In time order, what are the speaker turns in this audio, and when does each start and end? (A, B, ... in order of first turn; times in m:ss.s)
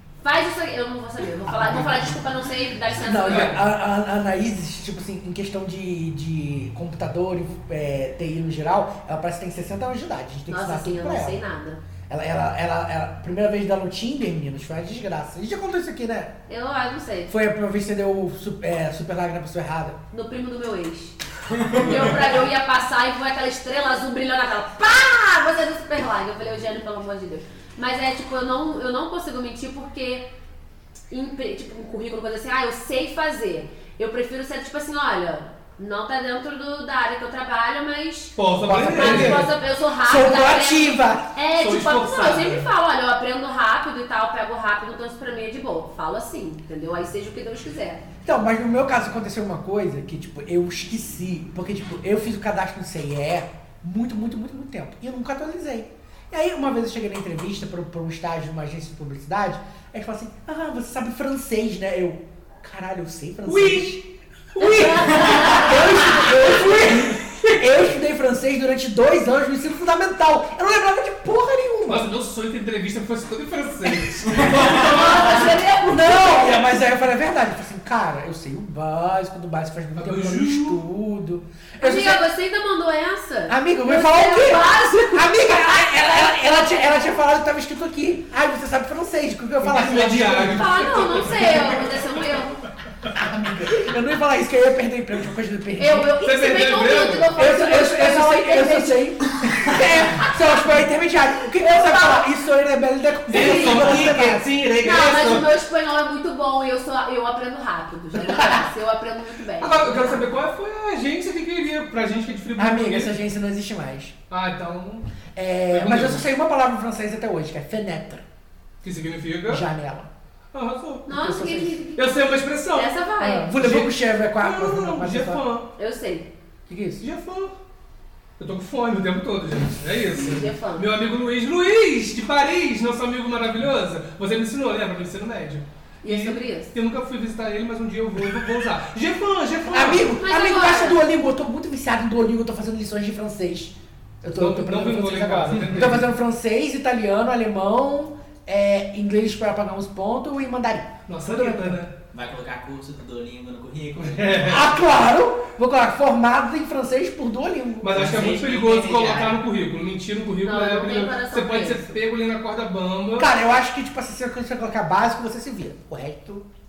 0:00.2-0:03.6 A
0:02.9-0:11.4 B
0:03.3-0:03.6 C
0:10.5-0:11.8 A
0:12.1-0:16.3 B
0:16.5-0:17.3 A
0:17.3-0:20.0 B
0:20.1-0:21.2 A
0:21.7-0:30.3 A
0:31.1-0:48.0 A
0:38.4-0:39.5 C
0:38.6-0:41.3 B
0:41.5-0:42.6 C
0:48.2-1:04.0 B
1:03.4-1:04.0 C
1:04.5-1:05.8 C
1:04.6-1:12.1 B
1:04.8-1:06.2 A
1:06.5-1:07.6 C
1:11.9-1:15.5 C
1:13.8-1:22.2 B
1:14.6-1:16.7 A
1:20.0-1:20.8 C
1:21.8-1:25.5 A
1:23.5-1:31.8 B
1:29.6-1:32.2 C
1:30.5-1:32.6 A
1:33.2-1:36.1 B
1:35.8-1:39.1 A
1:36.2-1:37.3 C
1:37.3-1:44.5 B
1:41.6-1:42.3 A
1:43.3-1:45.5 C
1:43.3-1:44.0 A
1:44.8-1:50.2 A
1:48.1-1:48.6 B
1:49.6-1:53.1 C
1:52.6-1:54.1 B
1:54.3-1:55.1 C
1:55.3-1:58.2 B
1:55.7-1:56.3 C
1:58.8-1:59.6 C
1:59.5-2:00.1 B
2:00.5-2:01.1 C
2:01.0-2:02.1 A
2:01.1-2:01.8 B
2:02.0-2:03.0 C
2:02.7-2:03.5 A
2:03.2-2:05.4 B
2:03.6-2:05.7 C
2:05.8-2:06.3 A
2:06.7-2:07.0 B
2:07.0-2:07.5 C
2:08.4-2:20.1 C
2:10.2-2:10.8 A
2:16.0-2:16.7 A
2:19.7-2:31.8 B
2:20.2-2:21.0 A
2:24.3-2:26.1 C
2:31.1-2:31.9 C
2:32.1-2:34.8 D
2:34.0-2:34.7 C
2:34.5-2:38.1 B
2:37.8-2:43.3 C
2:37.9-2:39.4 D
2:40.4-2:41.9 A
2:43.2-2:46.4 B